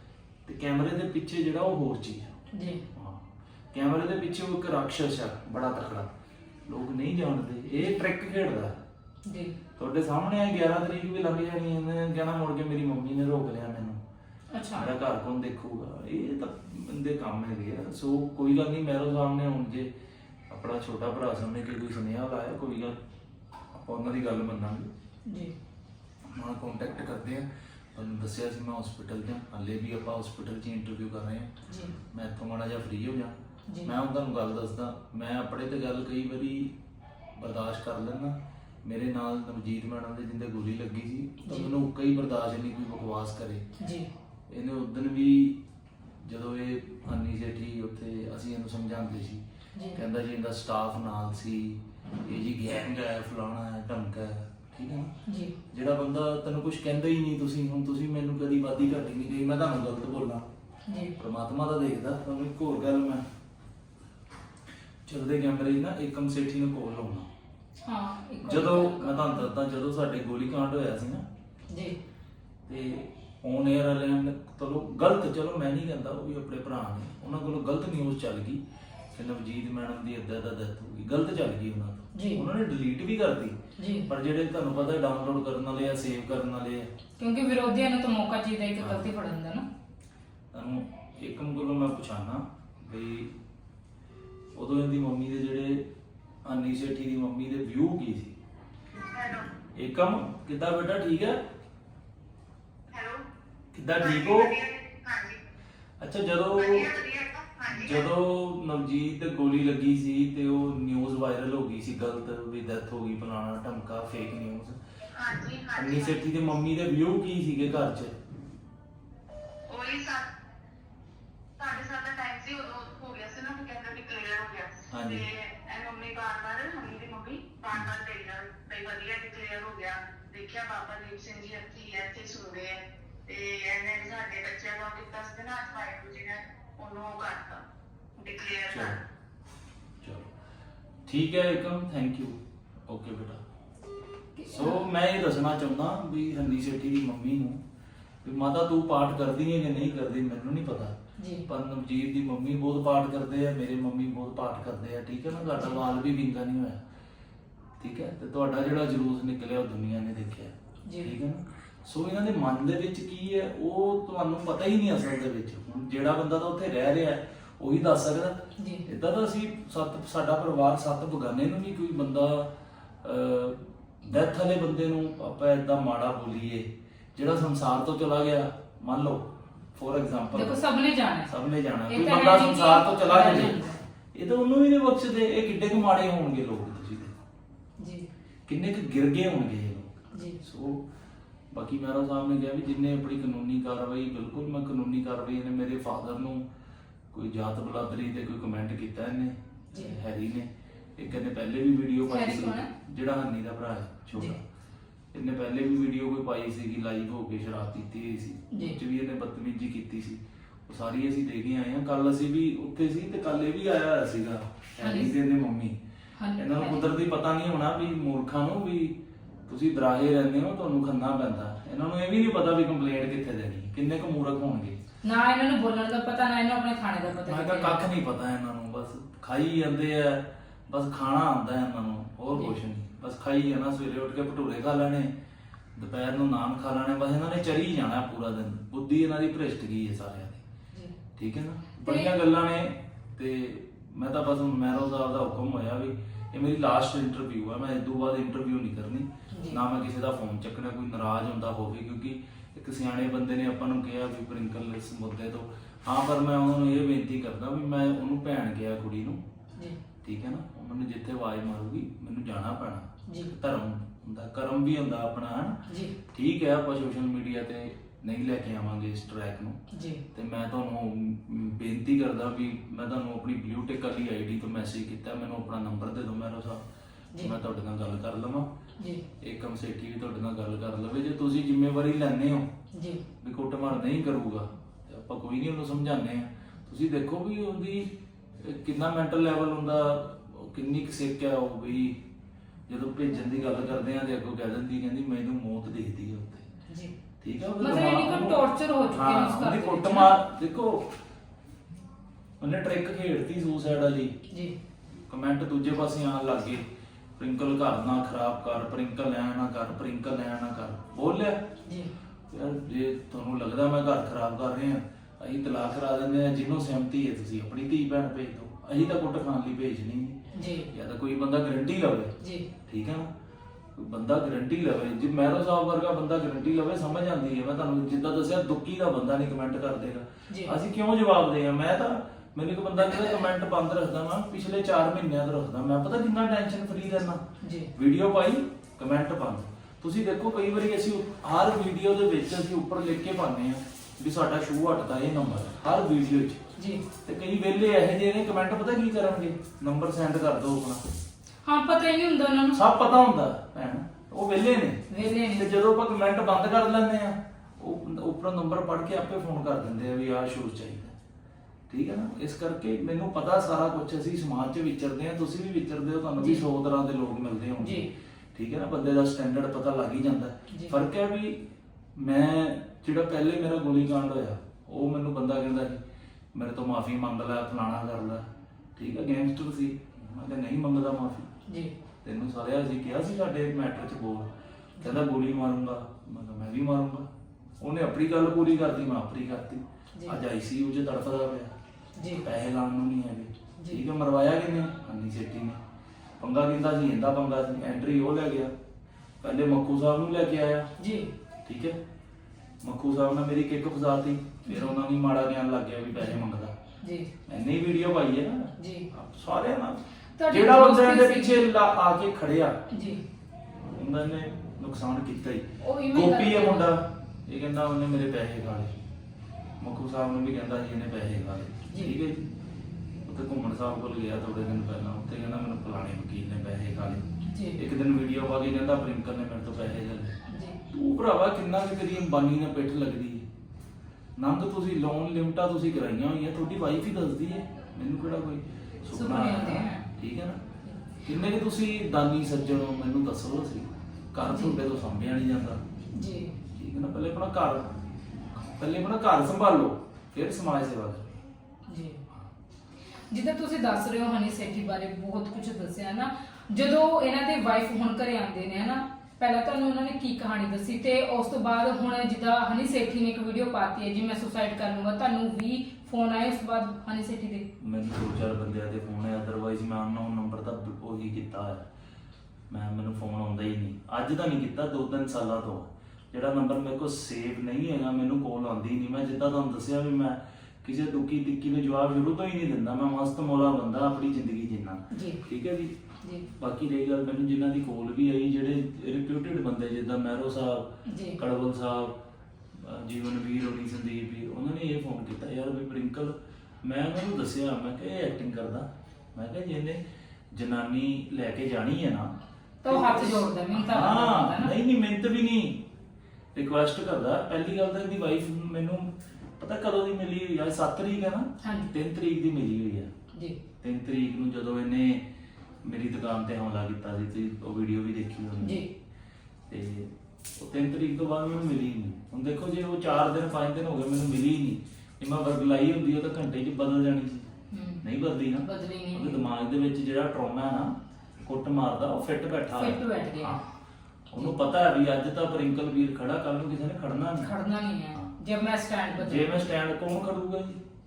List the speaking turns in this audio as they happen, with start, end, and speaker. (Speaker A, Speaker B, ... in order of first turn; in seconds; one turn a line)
Speaker A: 0.5-2.4
Speaker B: 2.5-2.8
Speaker A: 2.9-6.1
Speaker A: 6.7-8.8
Speaker B: 9.2-9.6
Speaker A: 9.8-14.0
Speaker B: 14.5-14.9
Speaker A: 14.7-19.9
Speaker A: 20.5-22.9
Speaker A: 23.7-24.9
Speaker B: 25.2-25.5
Speaker A: 26.3-36.7
Speaker A: 37.3-43.7
Speaker B: 41.4-41.7
Speaker B: 43.8-44.1
Speaker A: 44.5-45.6
Speaker A: 46.2-55.1
Speaker B: 55.2-55.5
Speaker A: 55.7-60.5
Speaker B: 60.9-61.1
Speaker A: 61.2-63.2
Speaker A: 65.0-67.3
Speaker B: 67.8-69.5
Speaker A: 68.4-71.2
Speaker B: 71.7-72.0
Speaker A: 72.7-78.6
Speaker A: 79.1-86.9
Speaker B: 82.1-82.4
Speaker B: 83.8-84.1
Speaker B: 87.2-89.7
Speaker A: 88.8-89.1
Speaker A: 90.5-93.3
Speaker A: 94.5-95.8
Speaker A: 96.4-98.4
Speaker C: 99.1-99.5
Speaker A: 99.7-101.4
Speaker C: 102.9-103.2
Speaker A: 103.7-104.5
Speaker C: 104.0-105.4
Speaker A: 106.0-106.9
Speaker C: 106.5-108.1
Speaker A: 107.7-114.8
Speaker C: 115.1-116.2
Speaker A: 115.7-118.1
Speaker C: 119.7-120.3
Speaker C: 121.6-137.6
Speaker A: 124.9-125.2
Speaker C: 138.2-139.0
Speaker A: 138.7-139.0
Speaker A: 140.0-140.3
Speaker A: 141.1-143.4
Speaker B: 144.3-144.8
Speaker A: 144.4-147.6
Speaker A: 148.2-150.9
Speaker B: 151.2-151.4
Speaker A: 151.4-156.8
Speaker A: 157.8-180.6
Speaker B: 160.8-161.1
Speaker B: 168.6-168.8
Speaker B: 180.3-181.3
Speaker A: 181.3-183.6
Speaker B: 181.9-183.8
Speaker A: 184.1-187.1
Speaker B: 187.8-188.1
Speaker A: 188.5-190.8
Speaker B: 190.1-190.4
Speaker A: 191.5-196.5
Speaker A: 197.1-204.4
Speaker B: 202.1-202.7
Speaker A: 205.1-215.8
Speaker B: 208.5-208.8
Speaker B: 214.8-215.1
Speaker B: 216.2-216.8
Speaker A: 216.3-219.0
Speaker A: 219.5-224.8
Speaker B: 225.0-227.8
Speaker A: 227.2-235.1
Speaker A: 235.7-240.4
Speaker A: 241.2-259.2
Speaker B: 241.8-242.1
Speaker B: 249.3-249.6
Speaker A: 260.0-269.6
Speaker B: 265.7-265.9
Speaker B: 269.7-270.0
Speaker A: 270.1-276.6
Speaker A: 277.2-278.5
Speaker B: 278.8-279.0
Speaker A: 279.2-282.5
Speaker B: 282.7-283.0
Speaker A: 283.2-292.0
Speaker A: 292.7-296.5
Speaker B: 296.7-296.9
Speaker A: 297.2-300.9
Speaker B: 297.6-300.1
Speaker A: 302.4-304.1
Speaker B: 304.3-304.6
Speaker A: 305.1-306.6
Speaker A: 307.2-311.5
Speaker B: 311.6-311.9
Speaker A: 312.3-323.1
Speaker B: 320.3-320.7
Speaker B: 322.2-322.5
Speaker A: 323.7-337.2
Speaker B: 330.3-330.5
Speaker B: 337.4-337.7
Speaker A: 337.7-346.4
Speaker B: 346.6-346.8
Speaker A: 347.0-350.8
Speaker B: 351.4-352.6
Speaker A: 352.5-360.9
Speaker B: 354.9-355.5
Speaker A: 361.7-371.4
Speaker B: 366.2-366.4
Speaker B: 367.6-367.9
Speaker B: 370.5-370.8
Speaker A: 371.9-375.8
Speaker A: 376.3-381.3
Speaker B: 381.4-381.7
Speaker A: 382.0-387.1
Speaker A: 387.6-391.5
Speaker B: 391.9-392.3
Speaker A: 392.2-395.6
Speaker B: 393.6-393.8
Speaker A: 396.2-398.5
Speaker A: 399.2-400.7
Speaker B: 400.8-401.1
Speaker A: 401.4-401.8
Speaker A: 402.6-406.6
Speaker B: 404.5-404.8
Speaker B: 406.8-407.1
Speaker A: 407.2-412.6
Speaker B: 408.6-408.9
Speaker B: 410.2-411.5
Speaker B: 412.7-413.0
Speaker A: 413.7-418.7
Speaker B: 415.6-416.7
Speaker A: 419.6-422.2
Speaker B: 421.7-421.9
Speaker A: 423.0-433.2
Speaker B: 427.3-427.6
Speaker B: 430.3-430.6
Speaker A: 434.1-440.4
Speaker B: 438.9-439.8
Speaker A: 441.0-445.6
Speaker B: 444.2-444.6
Speaker B: 445.9-446.4
Speaker A: 446.5-447.7
Speaker A: 448.4-451.1
Speaker B: 451.7-452.0
Speaker B: 453.1-467.5
Speaker A: 467.6-471.7
Speaker A: 472.5-485.7
Speaker B: 484.9-485.2
Speaker A: 486.3-492.0
Speaker B: 490.9-491.2
Speaker A: 492.5-499.8
Speaker A: 500.3-505.6
Speaker B: 502.6-504.5
Speaker A: 506.3-512.9
Speaker B: 511.4-511.7
Speaker B: 513.1-513.4
Speaker A: 513.6-515.0
Speaker A: 515.6-518.6
Speaker B: 518.4-518.7
Speaker A: 519.5-527.3
Speaker B: 527.5-527.8
Speaker A: 527.8-533.4
Speaker B: 528.4-529.2
Speaker B: 532.5-533.4
Speaker A: 534.1-537.3
Speaker B: 537.2-539.4
Speaker A: 538.9-540.6